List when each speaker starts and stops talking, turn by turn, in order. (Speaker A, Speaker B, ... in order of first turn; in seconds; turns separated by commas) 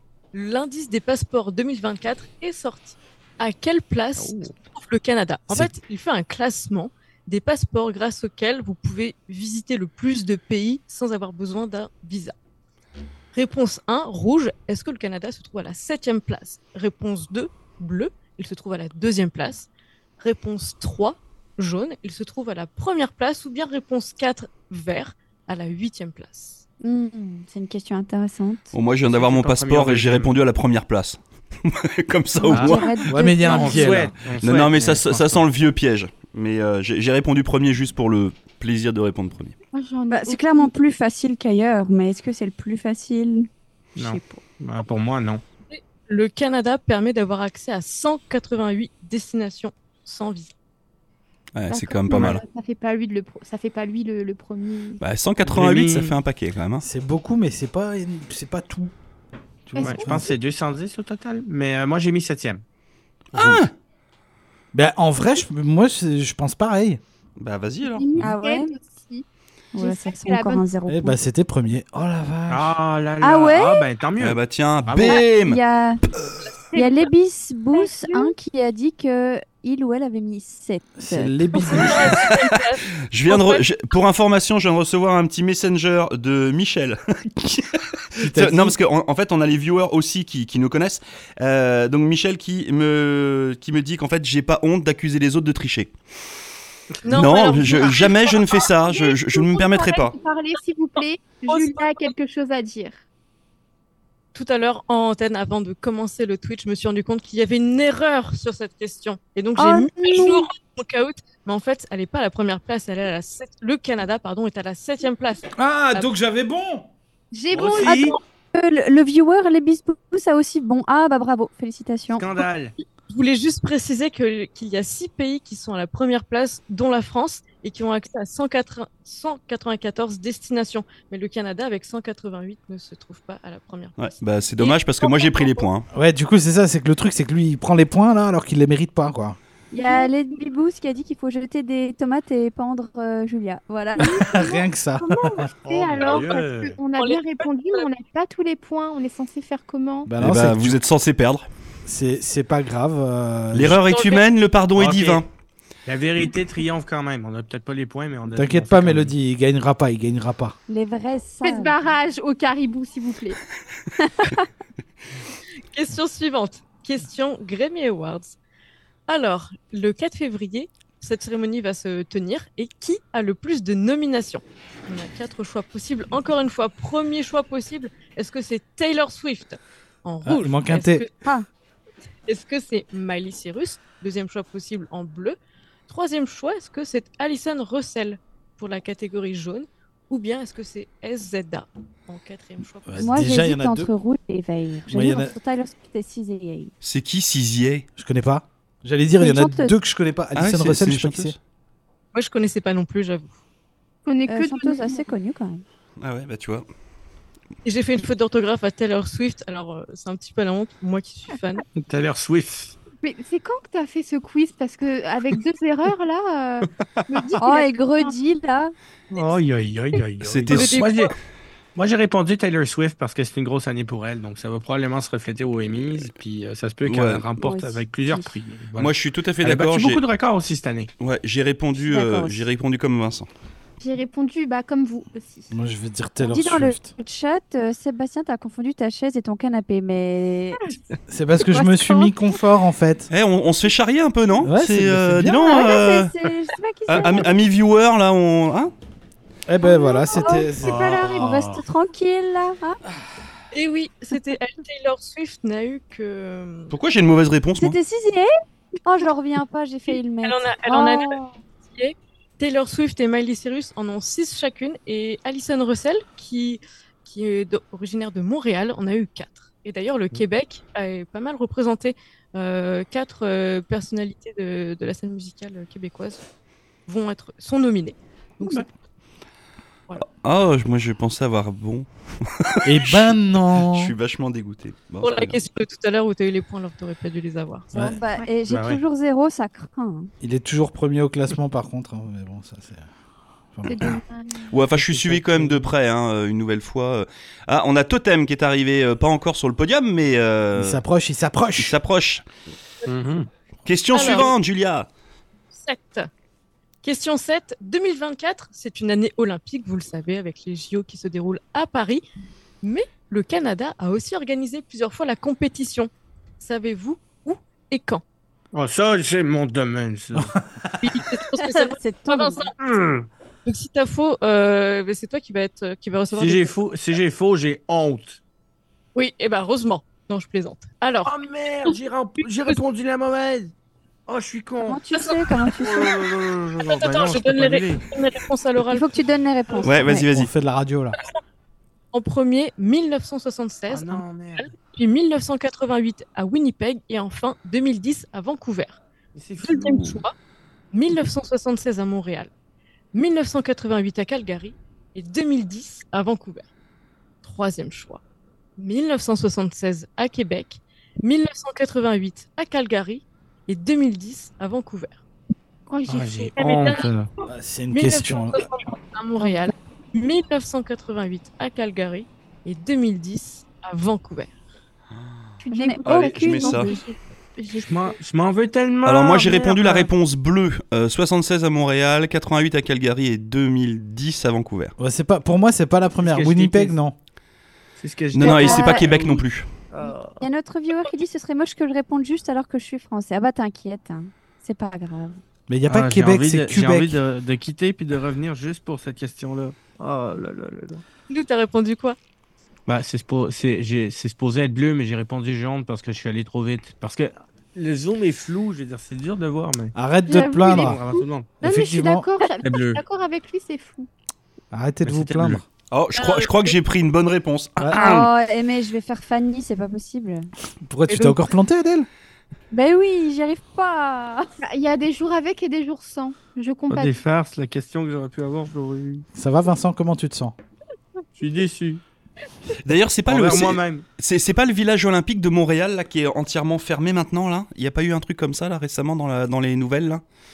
Speaker A: 0.3-12.3, Speaker B: 4.2-4.5, Speaker A: 13.3-19.7, Speaker A: 20.2-26.6, Speaker C: 26.8-28.7, Speaker D: 28.7-32.8, Speaker B: 29.0-30.4, Speaker C: 32.4-34.0, Speaker B: 32.5-32.8, Speaker E: 33.0-34.1, Speaker B: 33.4-35.4, Speaker D: 34.4-39.5, Speaker F: 39.7-40.7, Speaker C: 40.1-44.4, Speaker B: 44.0-45.4, Speaker A: 45.7-50.5, Speaker D: 51.5-52.4, Speaker F: 51.7-55.0, Speaker B: 52.1-52.4, Speaker D: 55.0-56.8, Speaker B: 55.4-56.1, Speaker E: 56.8-58.9, Speaker E: 59.7-60.3, Speaker F: 59.8-60.2, Speaker B: 59.8-62.6, Speaker D: 63.3-63.7, Speaker E: 63.3-63.6, Speaker E: 64.7-67.0, Speaker D: 67.4-68.2, Speaker F: 67.8-70.7, Speaker C: 68.2-68.7, Speaker C: 69.7-71.2, Speaker E: 70.9-72.8, Speaker B: 72.5-75.2, Speaker C: 73.2-73.8, Speaker D: 74.2-75.6, Speaker C: 75.2-76.0, Speaker C: 76.7-81.7, Speaker F: 77.7-78.3, Speaker E: 81.0-82.2, Speaker A: 81.6-83.7, Speaker D: 81.7-82.4, Speaker D: 83.1-95.9, Speaker E: 88.1-88.8, Speaker A: 97.0-98.7, Speaker D: 97.1-100.1, Speaker F: 98.9-103.0, Speaker A: 101.5-102.1, Speaker A: 104.3-116.1, Speaker C: 109.6-110.5, Speaker E: 115.5-116.9, Speaker F: 117.3-118.1, Speaker B: 117.5-118.2, Speaker C: 117.8-122.3, Speaker B: 122.1-122.7, Speaker A: 123.1-135.7, Speaker D: 134.0-135.8, Speaker E: 135.9-139.4, Speaker C: 139.7-144.4, Speaker F: 139.7-140.1, Speaker F: 144.0-150.1, Speaker E: 144.1-145.5, Speaker B: 145.6-146.8, Speaker A: 147.0-147.8, Speaker E: 150.1-150.8, Speaker D: 150.2-151.4, Speaker E: 151.8-153.8, Speaker D: 153.5-155.3, Speaker A: 153.8-154.2, Speaker B: 154.7-155.2, Speaker B: 155.8-159.1, Speaker E: 158.3-160.6, Speaker C: 160.7-161.7, Speaker F: 161.4-163.4, Speaker C: 164.0-164.4, Speaker A: 165.7-168.3, Speaker A: 169.1-181.1, Speaker E: 180.2-181.1, Speaker A: 182.3-185.4, Speaker A: 185.9-193.3, Speaker E: 192.9-193.9, Speaker C: 193.0-196.7, Speaker E: 194.9-195.3, Speaker D: 196.8-197.8, Speaker E: 198.0-201.3, Speaker C: 199.2-199.8, Speaker D: 200.3-201.3, Speaker A: 202.1-203.3, Speaker F: 204.0-205.1, Speaker C: 204.3-205.6, Speaker D: 206.0-206.7, Speaker A: 207.6-211.6, Speaker B: 211.8-212.8, Speaker F: 213.0-218.2, Speaker B: 216.8-217.3, Speaker C: 217.4-218.7, Speaker B: 219.1-221.1, Speaker D: 220.2-220.9, Speaker A: 220.5-221.1, Speaker B: 221.8-230.9, Speaker D: 226.8-227.3, Speaker C: 227.4-228.3, Speaker D: 228.8-230.0, Speaker D: 231.0-233.3, Speaker C: 231.8-232.4, Speaker F: 233.8-235.5, Speaker E: 235.5-236.9, Speaker C: 236.2-240.6, Speaker E: 241.1-243.1, Speaker C: 241.5-242.1, Speaker D: 243.1-246.2, Speaker E: 244.4-245.6, Speaker C: 245.4-247.3, Speaker D: 246.9-248.7, Speaker E: 249.5-251.4, Speaker C: 249.7-252.8, Speaker F: 249.7-251.0, Speaker A: 253.5-256.7, Speaker D: 256.7-257.8, Speaker C: 257.6-258.3, Speaker C: 258.8-261.3, Speaker A: 260.2-276.2, Speaker A: 276.9-278.6, Speaker B: 278.4-278.6, Speaker D: 280.1-285.4, Speaker E: 282.6-283.9, Speaker A: 285.0-287.8, Speaker C: 287.8-290.1, Speaker F: 287.9-288.3, Speaker B: 288.5-288.8, Speaker E: 290.2-292.9, Speaker E: 293.5-293.9, Speaker F: 293.6-294.6, Speaker D: 294.5-300.8, Speaker B: 294.7-295.7, Speaker E: 300.6-301.7, Speaker D: 301.6-302.2, Speaker B: 302.9-303.3, Speaker D: 303.6-304.9, Speaker A: 303.9-304.3, Speaker A: 305.5-306.1, Speaker A: 306.8-312.0, Speaker A: 312.6-318.0, Speaker B: 318.5-320.3, Speaker E: 320.1-320.8, Speaker A: 320.8-322.5, Speaker C: 321.4-322.5, Speaker B: 322.6-323.1, Speaker A: 323.4-326.5, Speaker B: 326.1-328.2, Speaker A: 328.9-331.7, Speaker B: 331.0-333.5, Speaker B: 334.1-334.8, Speaker C: 334.6-335.9, Speaker A: 334.9-335.2, Speaker B: 335.4-337.9, Speaker A: 336.6-339.0, Speaker C: 338.7-340.1, Speaker D: 339.6-340.3, Speaker E: 339.9-341.0, Speaker A: 341.9-348.8, Speaker B: 343.7-344.5, Speaker B: 349.1-350.0, Speaker A: 349.4-350.1, Speaker A: 350.7-352.3, Speaker A: 352.9-356.5, Speaker A: 357.2-358.0, Speaker A: 358.6-365.0, Speaker F: 365.7-366.3, Speaker B: 365.9-367.1, Speaker A: 366.4-366.9, Speaker E: 367.2-368.5, Speaker A: 367.7-374.3, Speaker F: 375.4-378.0, Speaker C: 375.5-376.7, Speaker D: 375.8-376.7, Speaker B: 377.6-379.9, Speaker D: 378.8-384.7, Speaker E: 384.8-386.9, Speaker B: 386.0-386.8, Speaker B: 387.8-390.2, Speaker D: 388.1-389.5, Speaker C: 388.2-388.9, Speaker C: 390.2-395.2, Speaker E: 395.5-397.0, Speaker B: 395.7-400.8, Speaker A: 401.1-402.0, Speaker B: 402.7-409.7, Speaker E: 409.7-410.8, Speaker F: 410.1-413.9, Speaker B: 410.4-411.3, Speaker E: 411.4-412.1, Speaker B: 412.4-412.8, Speaker E: 414.5-415.4, Speaker B: 414.8-415.4, Speaker D: 415.7-417.8, Speaker A: 415.9-416.6, Speaker E: 417.6-417.8, Speaker C: 417.7-420.3, Speaker B: 417.8-418.1, Speaker E: 420.6-421.9, Speaker A: 420.9-421.3, Speaker C: 422.5-424.3, Speaker F: 424.4-426.9, Speaker B: 426.7-429.0, Speaker E: 429.1-430.3, Speaker B: 431.2-431.8, Speaker D: 432.6-440.0, Speaker B: 433.1-433.8